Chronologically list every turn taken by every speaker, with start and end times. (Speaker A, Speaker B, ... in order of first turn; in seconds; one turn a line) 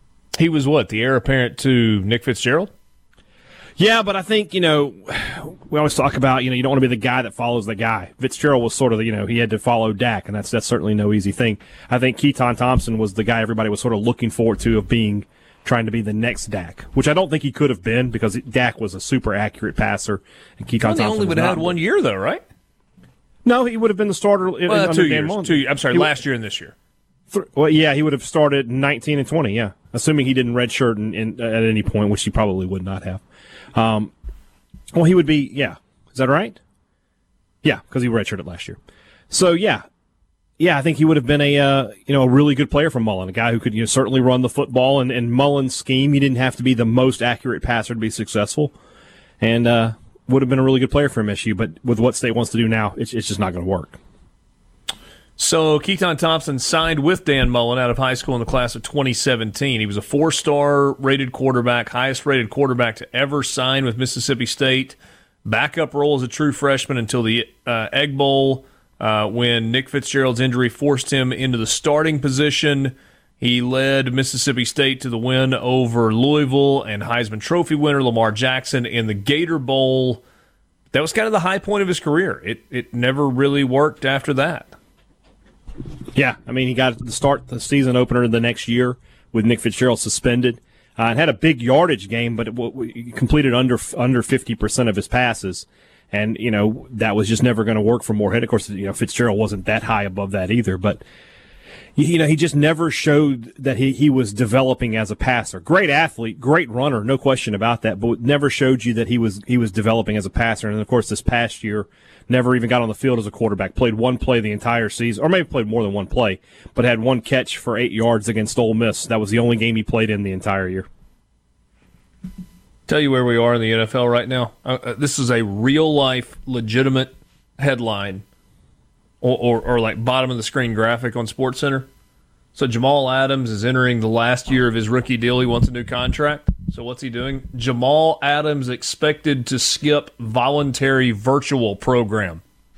Speaker A: 0.4-2.7
Speaker B: 3.8-21.8
Speaker A: 20.8-22.4
Speaker B: 23.4-26.2
Speaker A: 24.7-26.8
Speaker B: 27.3-33.2
Speaker B: 33.7-34.1
Speaker B: 34.9-36.6
Speaker B: 37.6-38.8
Speaker B: 39.3-39.8
Speaker B: 40.6-48.7
Speaker B: 49.4-54.0
Speaker A: 55.4-80.2
Speaker A: 80.9-84.8
Speaker B: 86.1-101.0
Speaker B: 102.0-120.9
Speaker A: 122.9-128.2
Speaker A: 129.2-131.9
Speaker A: 132.6-142.4